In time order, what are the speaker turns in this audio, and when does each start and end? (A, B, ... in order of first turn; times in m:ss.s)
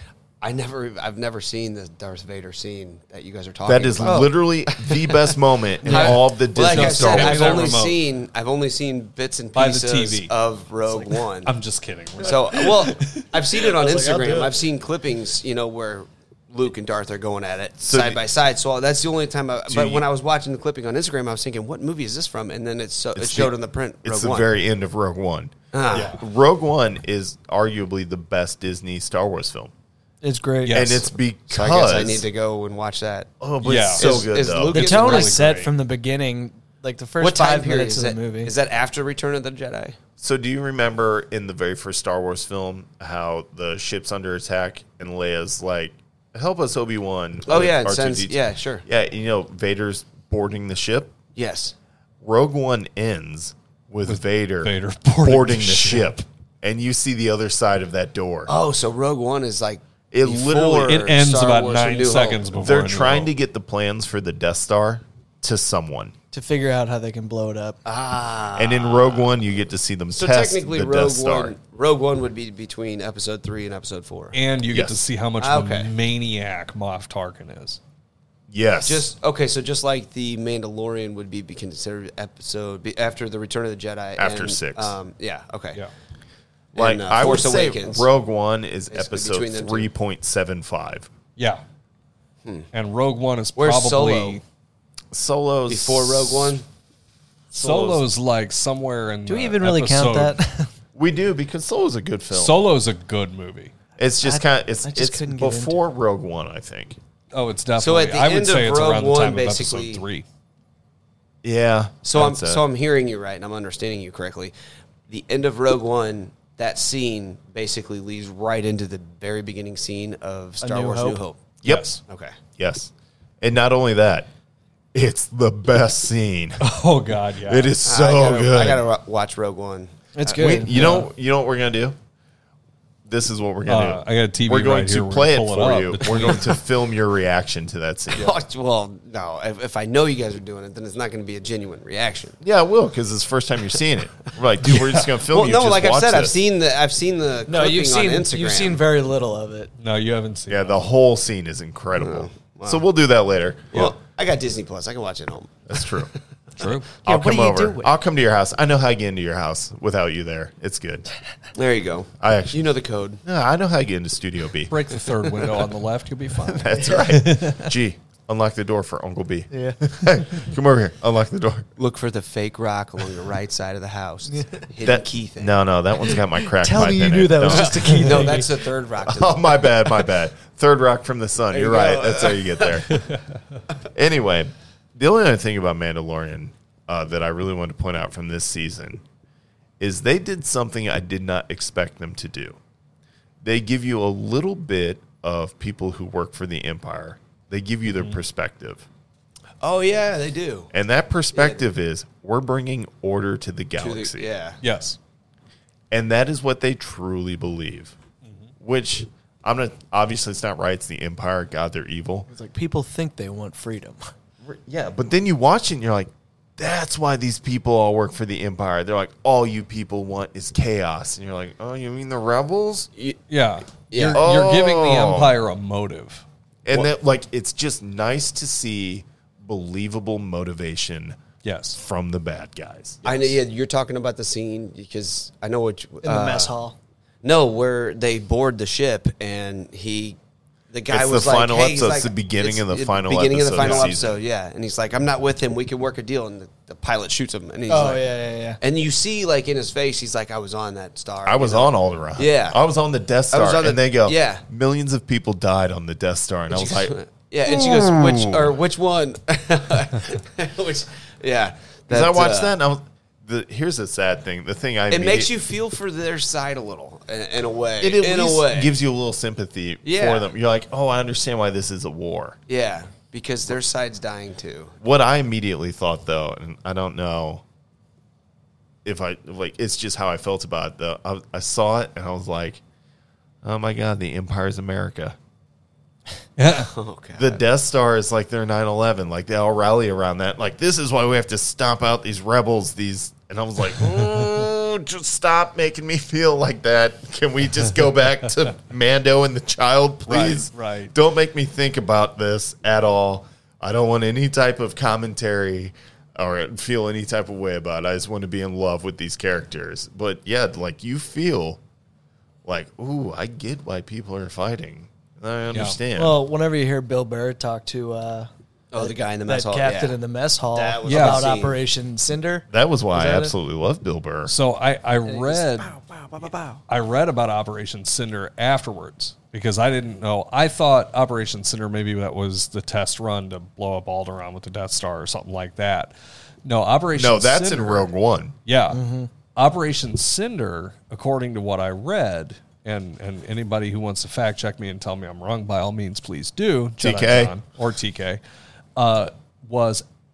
0:00.4-0:11.5 A
0:03.6-0:07.7 B
0:05.8-0:08.0 C
0:09.6-0:10.3 C
0:11.4-0:13.2 C
0:12.2-0:24.5 A
0:13.6-0:14.6 D
0:17.8-0:18.2 B
0:19.7-0:20.0 B
0:23.1-0:29.7 B
0:25.7-0:26.2 A
0:25.9-0:26.2 C
0:30.2-0:30.8 D
0:30.6-0:31.0 C
0:30.7-0:32.2 B
0:31.5-0:33.3 A
0:33.4-0:35.0 B
0:33.6-0:35.7 C
0:34.0-0:35.3 A
0:34.7-0:38.5 D
0:37.2-0:40.0 A
0:40.2-0:51.1 B
0:47.5-0:48.8 A
0:51.3-0:51.7 A
0:52.2-0:58.5 B
0:54.0-0:56.1 C
0:58.4-1:02.6 A
1:00.1-1:01.0 B
1:00.9-1:03.3 C
1:02.6-1:06.1 B
1:06.3-1:07.8 D
1:07.8-1:09.3 A
1:08.6-1:11.6 B
1:10.1-1:14.4 A
1:14.3-1:17.8 C
1:14.7-1:15.0 B
1:15.4-1:15.9 A
1:18.5-1:19.1 B
1:18.8-1:25.8 A
1:24.2-1:24.9 B
1:26.7-1:31.1 B
1:26.7-1:28.1 A
1:28.9-1:29.9 A
1:31.4-1:31.6 C
1:32.7-1:34.4 C
1:33.6-1:34.4 A
1:35.1-1:36.6 B
1:35.7-1:36.6 A
1:37.5-1:40.4 C
1:37.6-1:38.0 A
1:39.3-1:40.7 D
1:40.9-1:42.6 B
1:42.3-1:43.7 C
1:44.0-1:47.0 B
1:44.2-1:45.8 D
1:47.3-1:50.2 C
1:47.8-1:50.0 A
1:51.4-1:52.6 B
1:52.0-1:54.5 A
1:55.1-2:01.4 A
2:00.6-2:01.2 D
2:01.6-2:02.0 B
2:01.6-2:02.0 C
2:02.1-2:02.4 A
2:02.6-2:04.3 B
2:04.9-2:06.6 B
2:06.6-2:07.7 C
2:07.4-2:08.8 B
2:07.8-2:09.9 A
2:10.1-2:11.0 D
2:10.3-2:12.0 B
2:10.7-2:11.0 C
2:13.0-2:18.3 B
2:13.7-2:16.6 C
2:18.1-2:22.4 A
2:22.4-2:26.4 B
2:24.6-2:25.1 C
2:25.3-2:28.8 A
2:27.5-2:29.7 D
2:29.8-2:30.9 C
2:30.5-2:33.9 B
2:32.0-2:32.8 A
2:33.7-2:36.1 A
2:35.7-2:36.1 B
2:36.6-2:36.9 C
2:37.0-2:41.1 B
2:37.0-2:37.9 D
2:41.6-2:43.2 A
2:42.2-2:42.6 B
2:43.2-2:44.8 B
2:44.7-2:47.6 C
2:46.4-2:51.7 B
2:49.5-2:50.1 D
2:51.8-2:55.6 A
2:54.3-2:54.6 D
2:54.8-2:58.3 B
2:56.5-2:58.5 D
2:57.5-3:00.0 A
2:59.0-3:03.0 B
3:01.5-3:03.0 A
3:02.9-3:03.2 C
3:03.9-3:09.0 B
3:09.8-3:12.6 B
3:13.4-3:18.9 B
3:17.9-3:18.2 C
3:19.6-3:20.7 A
3:20.7-3:24.3 B
3:21.3-3:21.6 A
3:23.8-3:24.6 A
3:24.6-3:25.0 C
3:25.9-3:27.9 B
3:28.2-3:28.5 C
3:28.6-3:32.3 B
3:32.3-3:34.0 D
3:34.4-3:42.9 B
3:43.3-3:46.2 C
3:43.9-3:44.2 A
3:44.1-3:45.4 B
3:46.6-3:51.2 B
3:51.4-3:51.8 C
3:51.7-3:53.4 B
3:53.0-3:56.5 A
3:56.0-3:56.8 D
3:57.2-4:00.2 A
4:00.7-4:08.0 A
4:00.9-4:04.2 B
4:07.7-4:08.6 D
4:08.6-4:12.6 A
4:11.2-4:18.6 B
4:13.3-4:14.4 A
4:16.5-4:22.5 A
4:21.9-4:25.3 B
4:24.9-4:28.7 A
4:27.8-4:32.4 B
4:29.8-4:30.3 A
4:32.5-4:34.8 A
4:34.8-4:37.4 B
4:38.8-4:42.6 B
4:43.4-4:45.2 B
4:46.4-4:46.7 C
4:46.6-4:47.4 A
4:47.2-5:11.6 B
5:00.1-5:00.9 C
5:12.4-5:16.2 B
5:15.5-5:15.8 C
5:15.9-5:23.3 D
5:18.7-5:20.0 A
5:20.5-5:21.6 A
5:20.8-5:21.3 C
5:22.5-5:24.3 B
5:24.2-5:25.7 C
5:25.0-5:26.6 D
5:26.7-5:35.9 C
5:36.4-5:37.9 C
5:36.9-5:38.4 B
5:38.4-5:38.8 C
5:38.7-5:39.1 D
5:39.3-5:48.2 C
5:46.8-5:47.3 B
5:48.8-5:49.8 C